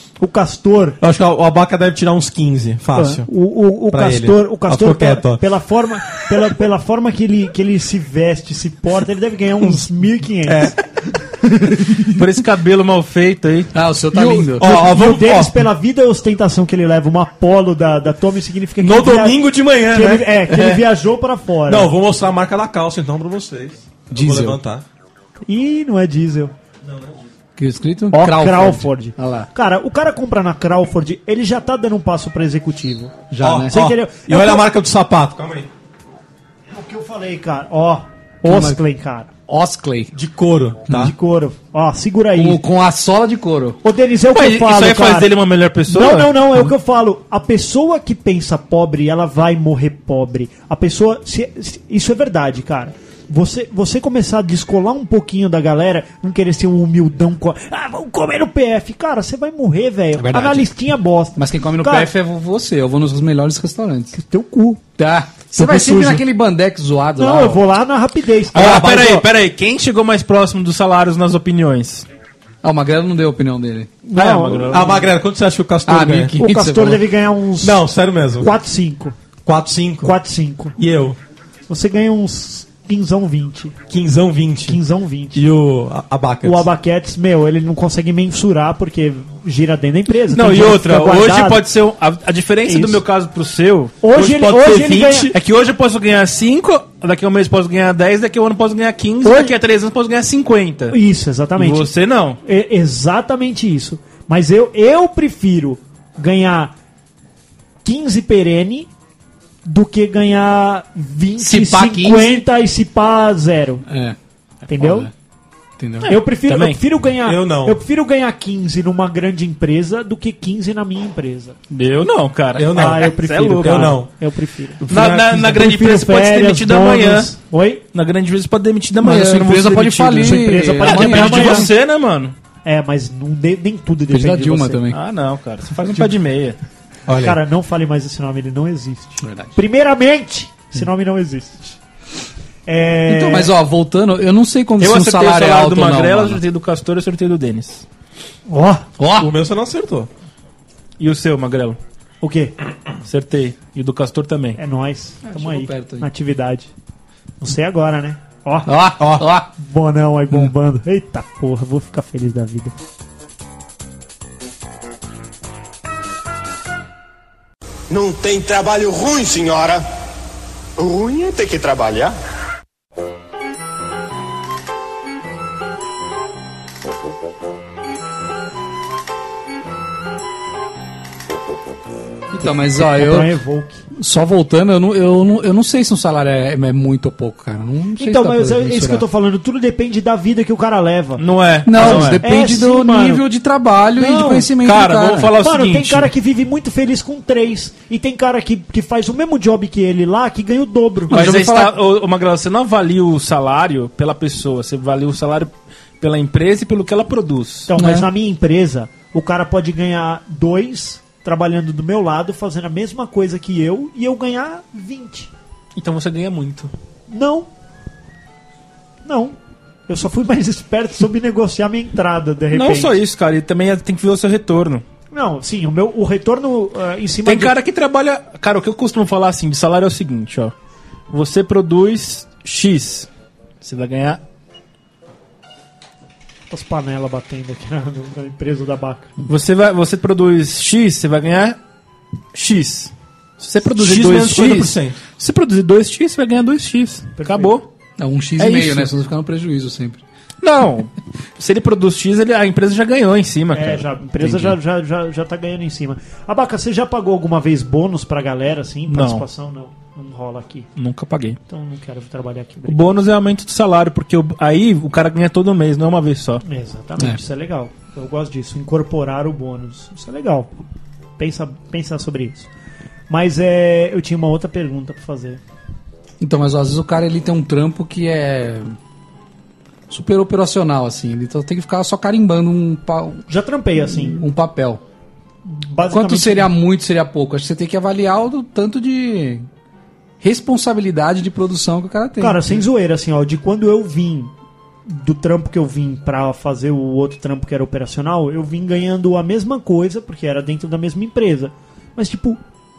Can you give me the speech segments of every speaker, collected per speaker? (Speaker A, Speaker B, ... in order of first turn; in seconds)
Speaker A: 0.2-1.0, 2.9-10.7, 14.3-21.9, 25.4-26.5, 28.1-33.2, 33.7-34.6, 36.7-39.3, 40.9-42.6, 43.8-45.3, 45.9-62.1, 64.1-64.8, 65.7-66.2, 67.2-69.2, 74.0-74.9, 76.3-77.8, 78.4-79.2, 80.0-80.7, 81.7-83.8, 84.7-85.5, 86.4-91.6, 92.7-93.0, 94.0-95.3, 99.2-99.5, 100.9-101.9, 102.4-106.7, 107.8-108.9, 109.6-113.8, 114.7-115.1, 116.1-121.6, 122.7-124.8, 125.5-127.8, 130.2-131.7, 132.6-134.8, 137.2-141.8, 142.7-143.5, 148.5-148.9, 152.2-152.6, 154.6-156.7, 157.4-158.7, 159.6-162.7, 182.4-183.8, 188.0-193.2, 193.9-194.5, 195.4-201.1, 207.7-215.3, 217.1-217.5, 219.0-219.3, 219.9-223.0, 225.1-227.5, 236.5-239.1, 247.2-247.6, 253.5-260.7, 261.5-263.0, 266.4-270.5, 271.2-272.5, 273.1-275.4, 283.3-284.2, 285.4-286.5, 292.2-294.3, 294.9-302.4
Speaker B: 1.0-3.3, 3.9-5.4, 10.4-10.8, 14.5-15.6, 18.8-20.8, 21.6-24.8, 26.8-27.2, 33.4-35.7, 40.1-41.1, 65.5-66.2, 68.5-69.2, 74.7-76.4, 77.6-78.5, 79.5-80.2, 80.8-81.2, 83.9-84.8, 85.3-86.7, 94.1-95.4, 117.2-117.8, 122.5-124.1, 124.8-125.6, 137.1-137.4, 149.2-150.1, 159.0-159.2, 243.8-245.0
Speaker C: 12.0-13.7, 44.3-46.3, 68.5-72.1, 74.1-75.1, 90.3-94.2, 95.3-101.0, 101.5-102.4, 116.0-116.8, 121.7-124.0, 124.9-127.3, 127.9-132.3, 134.9-136.6, 144.8-147.8, 151.0-151.8, 153.0-154.6, 191.2-192.2, 194.6-196.1, 201.1-207.7, 215.7-216.7, 222.5-224.8, 227.2-230.5, 231.1-233.1, 233.6-234.2, 239.2-241.6, 242.3-247.7, 248.4-248.9, 250.4-253.9, 258.9-259.2, 260.8-261.4, 262.6-266.4
Speaker D: 13.7-14.7, 24.1-24.6, 27.6-29.5, 33.3-33.8, 38.4-38.8, 39.5-40.1, 42.4-43.8, 60.2-60.7, 61.4-64.2, 65.0-67.6, 72.6-73.9, 75.8-77.0, 111.4-112.4, 113.9-114.2, 114.7-115.1, 115.8-116.1, 129.0-131.7, 134.1-135.0, 139.2-139.5, 143.1-146.4, 149.0-149.3, 155.2-156.1, 158.7-159.5, 182.3-183.3, 183.9-189.1, 191.7-195.3, 201.1-201.8, 207.8-208.1, 248.0-250.0, 254.2-254.5, 276.2-278.7, 279.9-283.2, 283.8-284.8, 285.9-289.5, 290.2-292.4
Speaker E: 167.9-169.8, 170.8-172.1